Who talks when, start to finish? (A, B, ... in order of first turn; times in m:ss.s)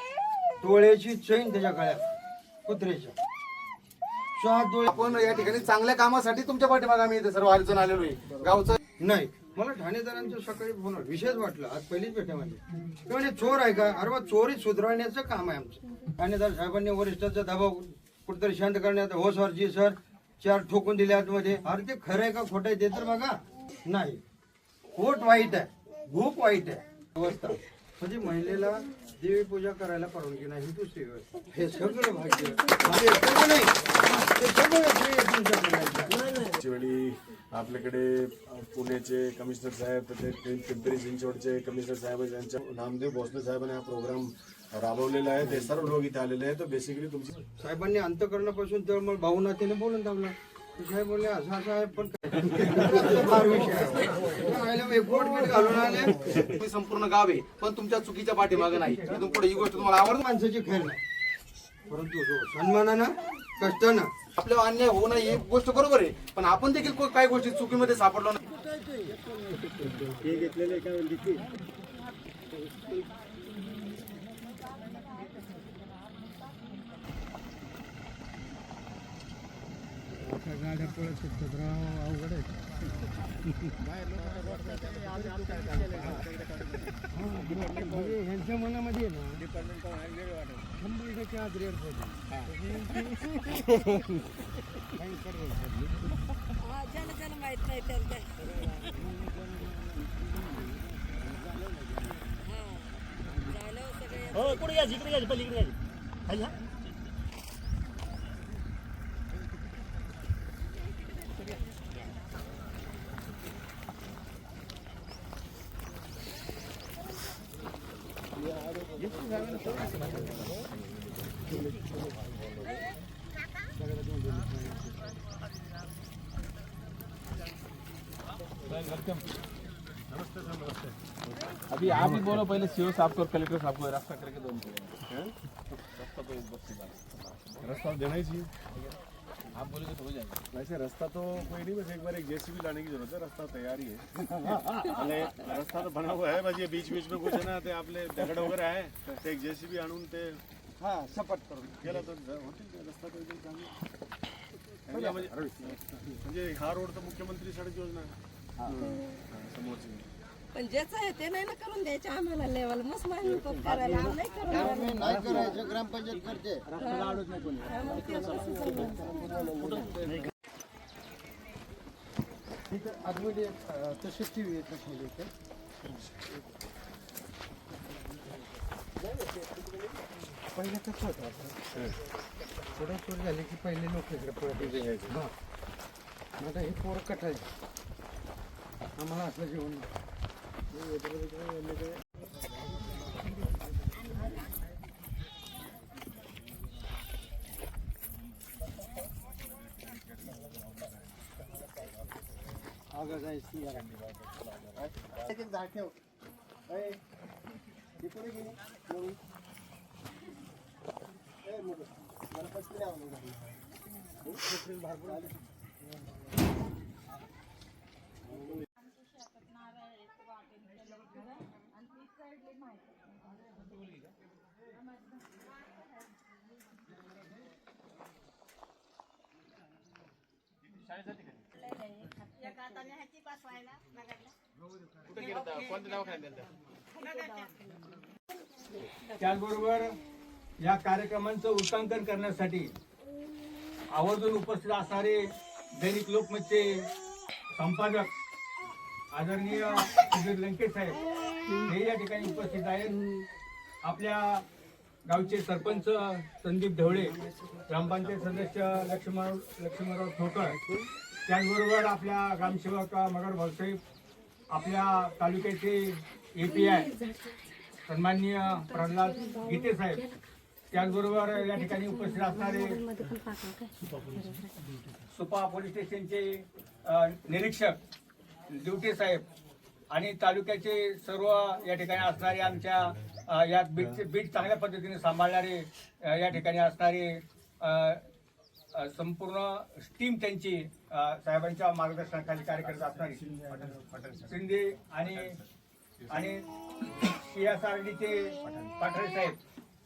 0:00.6-0:02.0 A
0:02.6-0:03.1 A
0:04.4-0:04.8 A
0:04.8-0:08.8 B
0:09.0-0:24.2 A
0:24.9-0:36.2 A
0:36.4-0:47.4 C
0:47.6-0:56.2 A
0:56.4-1:00.2 B
1:00.2-1:01.0 A
1:01.9-1:04.1 A
1:04.4-1:08.4 B
1:08.5-1:09.2 A
1:20.1-1:22.6 A
1:25.4-1:26.8 D
1:26.0-1:26.2 A
1:27.1-1:29.4 A
1:29.5-1:30.6 D
1:30.8-1:32.2 A
1:35.0-1:35.6 A
1:36.6-1:38.3 E
1:39.0-1:39.7 A
1:42.4-1:45.2 E
1:58.9-2:00.7 D
2:03.8-2:04.8 A
2:08.6-2:09.3 D
2:11.7-2:15.0 D
2:11.9-2:12.2 C
2:15.1-2:15.3 C
2:15.9-2:17.6 D
2:17.6-2:18.5 C
2:19.5-2:20.4 D
2:20.5-2:30.4 C
2:30.8-2:31.7 A
2:31.8-2:33.7 C
2:34.9-2:35.5 C
2:36.1-2:40.1 C
2:38.8-2:39.2 E
2:40.5-2:45.5 E
2:44.5-2:46.7 A
2:46.8-2:50.0 E
2:52.7-2:55.3 A
3:00.5-3:01.4 A
3:02.7-3:05.3 A
3:04.7-3:05.1 C
3:06.4-3:07.4 A
3:09.0-3:09.9 A
3:23.0-3:23.6 A
3:34.6-3:35.2 A
3:55.1-3:56.4 D
3:59.2-3:59.9 F
4:00.6-4:02.7 F
4:03.9-4:06.9 F
4:07.5-4:08.1 F
4:09.1-4:11.0 F
4:11.6-4:13.0 F
4:13.8-4:14.4 F
4:15.0-4:20.6 F
4:21.3-4:23.8 F
4:24.5-4:26.9 F
4:26.4-4:27.9 E
4:27.9-4:30.0 F
4:28.6-4:30.2 E
4:30.7-4:32.8 F
4:31.5-4:34.5 E
4:35.1-4:37.8 F
4:38.5-4:39.2 F
4:39.9-4:48.0 F
4:48.7-4:53.3 F
4:54.2-4:55.4 F
4:56.1-4:56.4 F
4:57.2-4:59.4 F